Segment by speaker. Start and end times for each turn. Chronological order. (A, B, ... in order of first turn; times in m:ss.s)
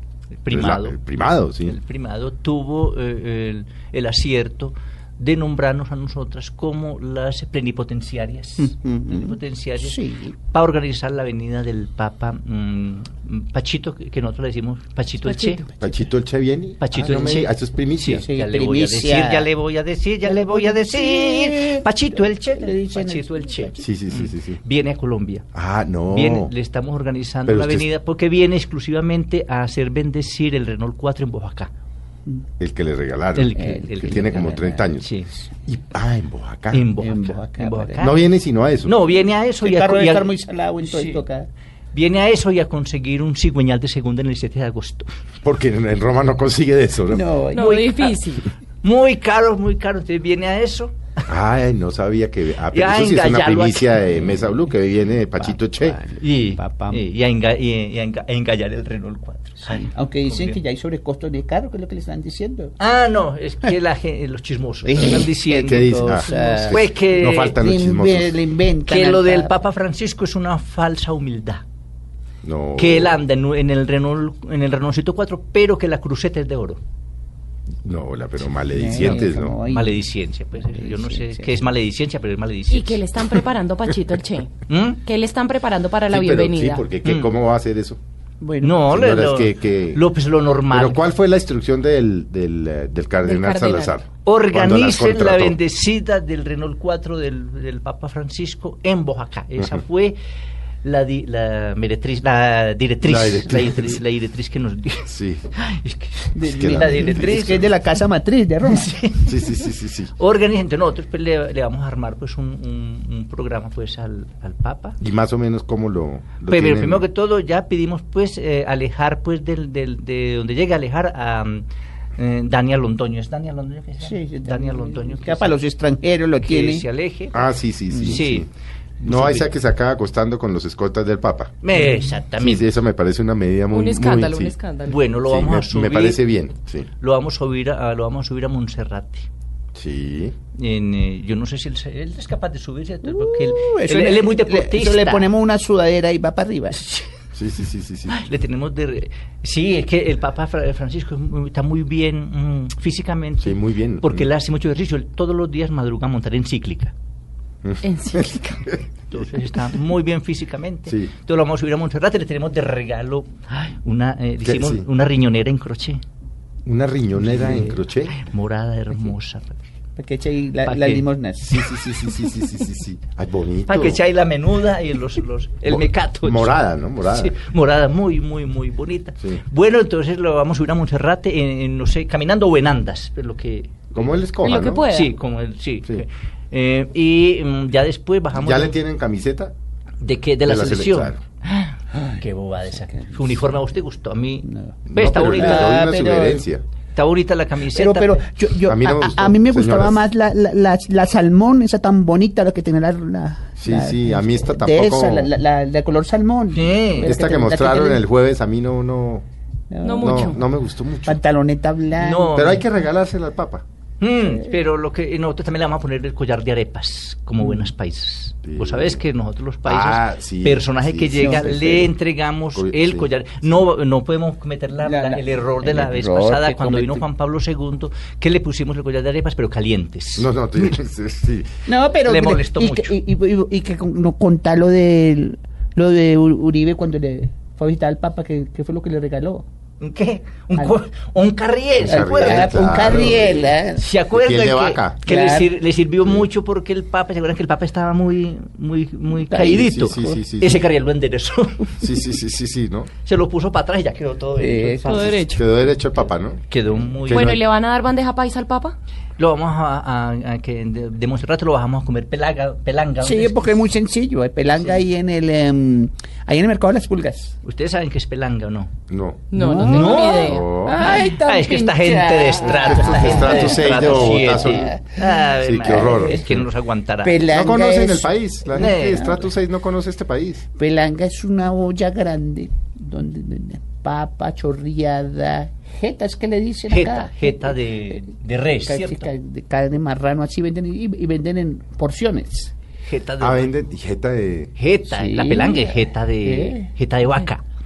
0:00.4-0:01.0 A
0:00.5-0:01.8 B
0:01.6-0:15.6 A
0:08.6-0:10.3 C
0:15.2-0:15.7 D
0:15.8-0:18.2 B
0:16.8-0:25.4 A
0:17.0-0:17.4 C
0:18.2-0:19.5 C
0:20.2-0:23.8 C
0:23.8-0:24.6 B
0:25.5-0:26.5 B
0:26.0-0:31.7 A
0:27.4-0:27.9 B
0:32.6-0:35.1 B
0:33.3-0:35.3 A
0:33.6-0:34.8 C
0:35.7-0:36.9 B
0:36.7-0:38.2 A
0:37.0-0:38.1 C
0:38.0-0:38.9 B
0:38.8-0:40.3 A
0:39.6-0:41.5 C
0:40.8-0:41.2 A
0:41.9-0:45.1 A
0:45.4-0:47.2 B
0:47.1-0:47.8 C
0:47.5-0:48.4 D
0:47.5-0:48.2 A
0:48.8-0:51.0 A
0:51.3-0:56.0 B
0:52.7-0:54.1 A
0:55.4-0:57.0 C
0:56.2-1:00.6 A
0:59.6-1:02.7 C
1:02.8-1:07.6 A
1:04.8-1:06.9 C
1:05.6-1:08.4 B
1:07.4-1:09.5 C
1:08.9-1:11.6 A
1:12.4-1:13.2 B
1:12.8-1:16.8 A
1:17.8-1:19.6 B
1:18.7-1:21.5 C
1:19.0-1:23.0 A
1:22.7-1:24.5 D
1:24.7-1:25.0 A
1:25.0-1:26.8 D
1:26.1-1:28.0 B
1:27.0-1:27.3 A
1:28.4-1:28.9 C
1:28.6-1:31.1 A
1:28.9-1:30.0 B
1:30.7-1:35.6 B
1:33.2-1:34.0 D
1:34.2-1:40.2 A
1:40.8-1:47.7 A
1:43.0-1:44.0 B
1:45.1-1:45.4 B
1:46.3-1:48.9 C
1:46.4-1:47.6 B
1:48.6-1:55.0 A
1:49.2-1:50.1 B
1:55.0-1:57.0 B
1:56.5-2:01.6 A
2:02.2-2:05.6 A
2:04.0-2:06.8 C
2:06.4-2:07.4 A
2:07.3-2:08.5 B
2:07.9-2:08.2 C
2:08.0-2:08.5 A
2:09.0-2:09.5 A
2:09.0-2:11.6 B
2:11.6-2:12.7 A
2:12.4-2:14.6 B
2:13.7-2:15.0 D
2:14.9-2:16.2 A
2:15.2-2:16.9 B
2:17.0-2:19.3 A
2:19.8-2:20.3 B
2:20.5-2:25.3 A
2:23.0-2:26.8 C
2:26.8-2:27.1 A
2:27.3-2:28.2 B
2:28.1-2:36.9 A
2:33.4-2:34.3 B
2:37.6-2:38.8 B
2:37.8-2:38.7 D
2:39.1-2:46.0 A
2:40.9-2:41.1 B
2:44.4-2:44.8 B
2:46.6-2:48.1 B
2:47.2-2:49.6 A
2:50.0-2:51.5 C
2:50.6-2:51.0 A
2:51.4-2:54.0 B
2:53.7-3:08.8 A
2:55.7-2:57.3 B
3:03.9-3:04.9 B
3:04.4-3:05.1 D
3:08.3-3:09.5 B
3:10.0-3:15.8 A
3:10.4-3:11.2 B
3:14.4-3:16.5 C
3:14.9-3:16.6 B
3:16.9-3:18.2 A
3:17.7-3:28.0 C
3:18.6-3:20.1 B
3:23.6-3:25.3 B
3:26.5-3:27.1 A
3:26.9-3:29.2 B
3:29.7-3:30.4 C
3:29.8-3:30.4 D
3:30.0-3:31.2 B
3:31.0-3:32.4 C
3:32.0-3:32.6 A
3:32.3-3:33.6 B
3:34.0-3:50.8 A
3:38.4-3:39.0 B
3:39.6-3:41.9 B
3:41.1-3:41.9 C
3:42.5-3:43.1 B
3:44.8-3:47.0 C
3:50.2-3:51.5 B
3:51.7-3:59.4 C
3:52.0-3:53.0 A
3:59.8-4:11.8 A
4:01.8-4:03.5 B
4:01.8-4:03.8 C
4:04.1-4:05.0 B
4:05.0-4:05.5 C
4:09.3-4:10.2 C
4:09.5-4:10.6 B
4:11.8-4:12.9 B
4:13.0-4:15.3 A
4:14.4-4:15.2 C
4:14.8-4:15.5 D
4:15.2-4:16.4 B
4:16.5-4:17.4 A
4:17.0-4:17.4 B
4:17.1-4:18.8 D
4:19.2-4:23.6 A
4:23.0-4:27.3 C
4:27.4-4:28.7 A
4:28.9-4:29.2 B
4:29.3-4:30.4 D
4:29.3-4:36.2 C
4:29.5-4:37.2 A
4:30.2-4:30.8 B
4:32.8-4:34.8 B
4:35.4-4:36.4 B
4:37.0-4:39.2 C
4:37.3-4:40.4 B
4:38.5-4:39.2 A
4:40.6-4:48.1 C
4:46.7-4:49.1 A
4:48.6-4:52.5 C
4:52.8-4:53.5 A
4:53.2-4:54.5 B
4:54.6-4:57.4 A
4:54.9-4:56.7 C